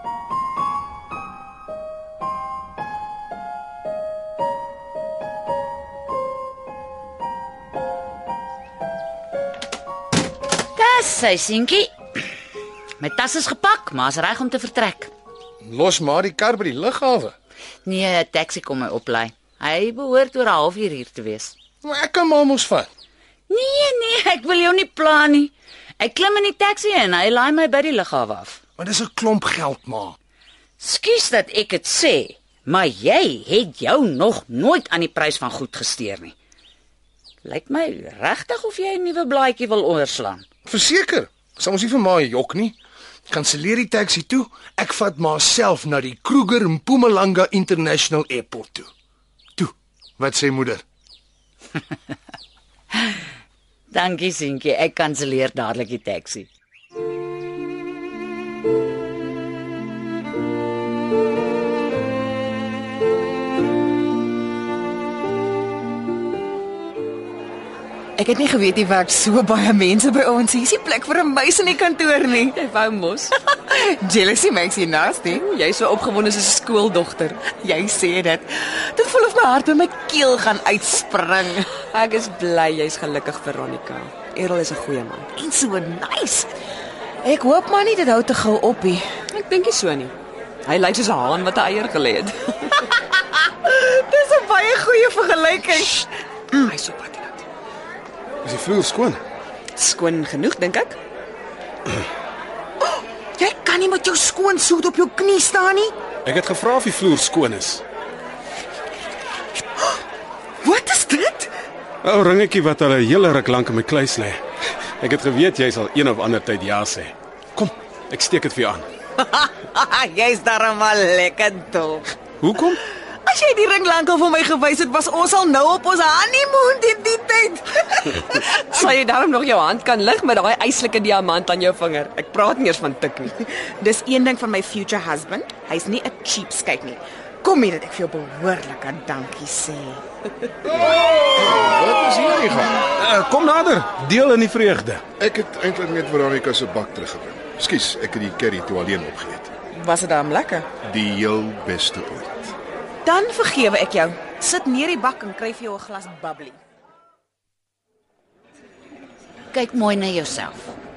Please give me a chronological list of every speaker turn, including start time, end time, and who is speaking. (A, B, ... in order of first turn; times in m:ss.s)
0:10.8-0:11.9 A
0:13.0-0:15.1 A
0:15.6-0:17.4 B
0:17.8-0:21.6 A
0:21.8-0:22.9 B
0:23.5-0:28.6 A
0:28.8-0:30.2 B
0:30.8-0:36.4 A
0:37.4-0:40.4 A
0:40.6-0:42.8 B
0:43.3-0:48.9 B
0:49.6-0:50.8 B
0:53.9-0:56.5 A
1:08.2-1:12.6 C
1:12.5-1:13.3 D
1:13.5-1:15.5 C
1:15.3-1:17.5 D
1:17.5-1:21.7 C
1:21.9-1:25.3 D
1:25.4-1:26.5 C
1:27.2-1:29.2 C
1:29.3-1:32.9 D
1:33.6-1:36.5 C
1:36.6-1:37.4 D
1:38.4-1:39.2 E
1:39.8-1:41.0 D
1:43.4-1:45.9 C
1:46.2-1:47.8 E
1:50.6-1:51.5 C
1:52.0-1:54.4 E
1:55.0-1:58.9 E
1:59.2-2:02.1 C
2:02.4-2:02.8 E
2:02.9-2:08.9 C
2:08.6-2:13.3 D
2:13.4-2:20.0 C
2:21.4-2:22.6 F
2:23.0-2:25.0 E
2:25.2-2:29.5 F
2:29.8-2:30.7 C
2:30.8-2:32.5 F
2:33.0-2:36.6 C
2:39.5-2:40.8 A